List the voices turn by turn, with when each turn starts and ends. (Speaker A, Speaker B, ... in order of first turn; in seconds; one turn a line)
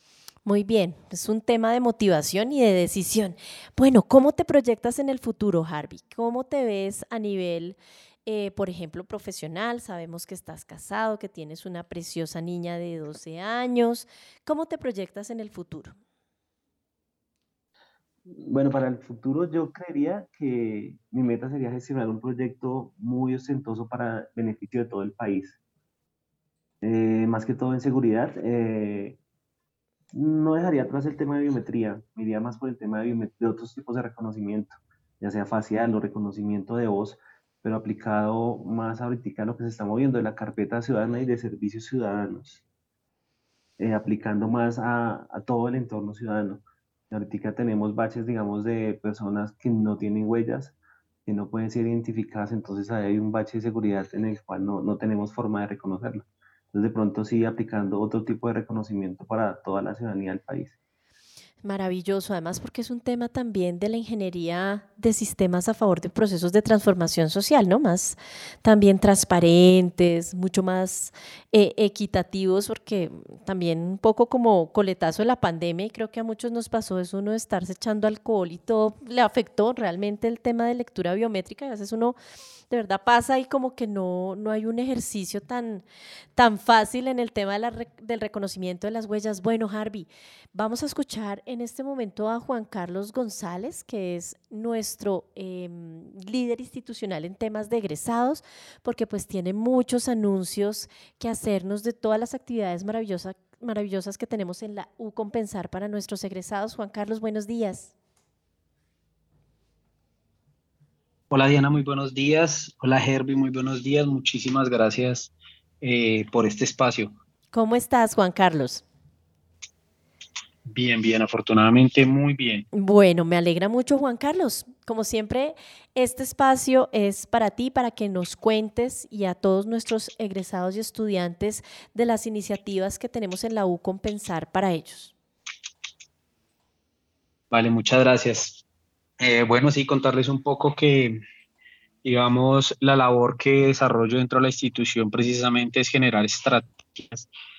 Speaker A: 0.4-15.9
Speaker B: 18.3-25.6
Speaker B: 26.8-29.2
Speaker B: 30.1-42.6
Speaker B: 43.8-50.7
Speaker B: 51.2-60.7
Speaker A: 61.6-82.2
Speaker A: 82.7-85.8
Speaker A: 86.4-107.9
Speaker C: 111.3-117.1
Speaker A: 117.5-118.8
Speaker C: 120.7-122.6
Speaker A: 122.7-135.1
Speaker C: 137.5-138.6
Speaker C: 139.2-141.2
Speaker C: 142.0-147.3